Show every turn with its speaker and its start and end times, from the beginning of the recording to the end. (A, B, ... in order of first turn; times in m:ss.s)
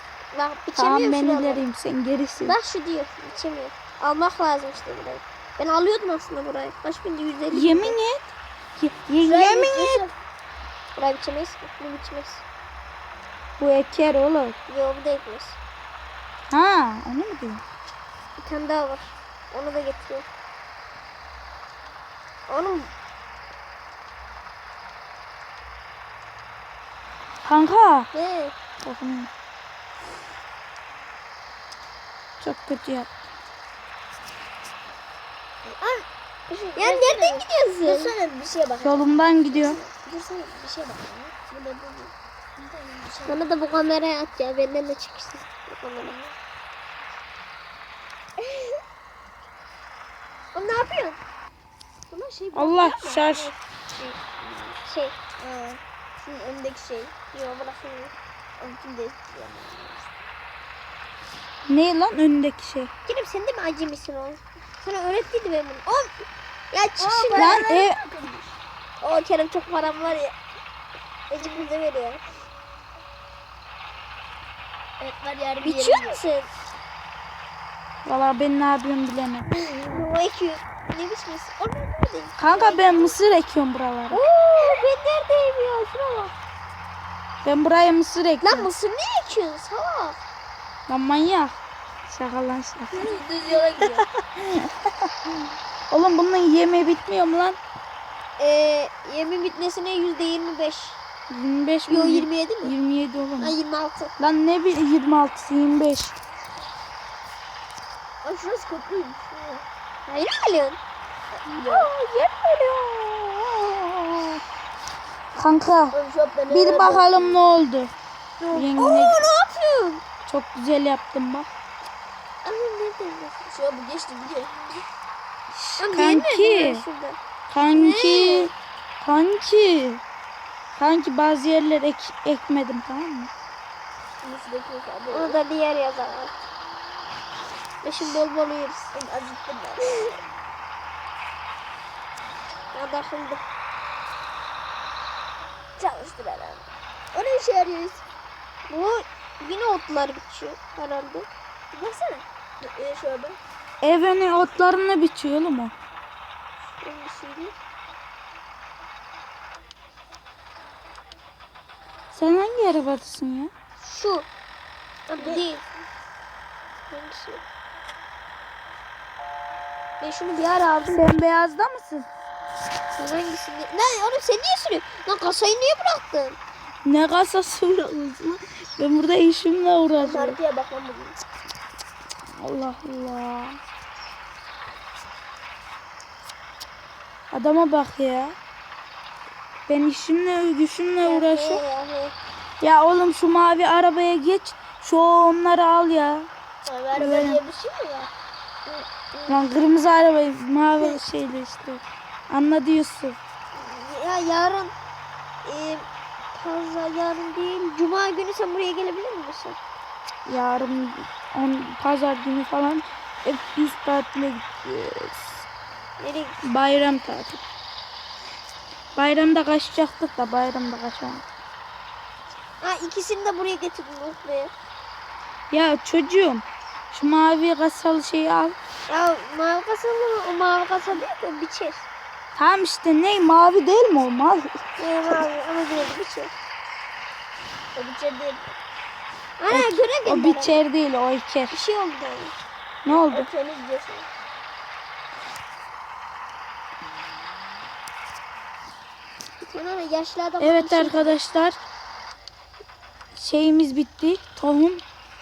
0:00.3-0:01.6 A
0:00.8-0:02.6 B
0:02.4-0:08.0 A
0:07.5-0:10.1 B
0:09.2-0:10.1 C
0:11.0-0:12.4 A
0:13.6-0:14.6 B
0:14.7-0:15.6 A
0:16.5-0:17.6 B
0:18.4-0:20.3 A
0:22.5-0:22.9 A
0:27.4-0:28.1 B
0:28.1-0:28.5 A
0:28.8-0:29.3 B
0:32.4-0:33.1 B
0:35.6-0:43.5 C
0:36.8-0:38.1 A
0:38.8-0:39.8 B
0:43.3-0:46.2 A
0:46.0-0:46.4 C
0:48.4-0:48.7 C
0:50.5-0:51.2 A
0:52.1-0:53.4 C
0:52.5-0:53.5 B
0:54.0-0:54.8 C
0:54.8-0:55.2 A
0:55.4-0:57.1 C
0:57.3-0:58.1 A
0:58.6-1:00.0 C
1:01.7-1:02.9 B
1:03.1-1:06.1 A
1:06.7-1:07.6 A
1:07.0-1:08.5 C
1:07.4-1:08.0 B
1:09.0-1:10.4 A
1:11.3-1:12.2 A
1:15.0-1:16.2 C
1:15.6-1:16.5 A
1:18.0-1:19.5 B
1:19.5-1:20.0 C
1:19.9-1:23.2 A
1:22.4-1:24.3 B
1:24.1-1:26.3 A
1:24.5-1:24.8 C
1:27.4-1:28.7 B
1:28.4-1:30.2 A
1:30.9-1:31.6 B
1:32.1-1:33.2 B
1:32.9-1:34.1 C
1:34.0-1:35.1 B
1:35.9-1:37.6 B
1:38.4-1:41.0 A
1:41.3-1:43.6 B
1:41.9-1:42.8 A
1:43.4-1:44.1 A
1:44.2-1:46.1 B
1:48.2-1:49.6 C
1:50.1-1:50.8 A
1:51.3-1:51.9 C
1:51.5-1:54.4 B
1:55.4-1:56.0 B
1:55.9-1:57.5 C
1:56.5-1:57.9 B
1:58.4-2:00.0 A
1:58.5-1:59.2 B
2:00.3-2:01.5 B
2:02.4-2:03.4 A
2:03.5-2:04.8 C
2:05.5-2:06.8 B
2:05.8-2:07.2 A
2:07.5-2:10.0 B
2:07.7-2:08.5 A
2:10.8-2:13.3 B
2:14.2-2:15.4 C
2:15.1-2:16.4 A
2:17.8-2:18.9 A
2:18.9-2:20.2 C
2:22.7-2:23.4 A
2:25.8-2:28.0 C
2:28.7-2:31.3 A
2:31.7-2:33.4 C
2:33.8-2:35.7 B
2:36.8-2:37.2 A
2:37.1-2:37.5 C
2:42.1-2:43.5 B
2:43.8-2:44.3 A
2:45.1-2:45.6 A
2:45.2-2:45.5 C
2:46.9-2:47.4 C
2:50.0-2:51.1 A
2:50.9-2:52.1 B
2:53.0-2:56.4 A
2:56.8-3:00.4 B
3:00.0-3:01.2 C
3:02.4-3:03.6 B
3:07.3-3:08.4 B
3:09.7-3:11.6 B
3:11.1-3:12.1 A
3:12.6-3:16.3 B
3:16.6-3:18.1 C
3:16.9-3:17.4 B
3:18.7-3:19.3 C
3:19.3-3:23.2 B
3:23.6-3:24.7 A
3:25.4-3:29.6 A
3:30.3-3:35.4 B
3:36.0-3:36.4 A
3:36.4-3:37.4 B
3:39.0-3:41.2 B
3:42.6-3:44.5 A
3:45.5-3:48.6 B
3:48.9-3:51.8 A
3:52.4-3:54.6 B
3:54.8-3:56.3 A
3:57.8-3:58.5 C
3:59.4-4:00.6 A
3:59.5-4:01.6 B
4:01.5-4:02.4 A
4:02.8-4:03.3 B
4:02.9-4:04.1 C
4:09.4-4:11.2 A
4:10.4-4:11.6 B
4:13.2-4:14.8 B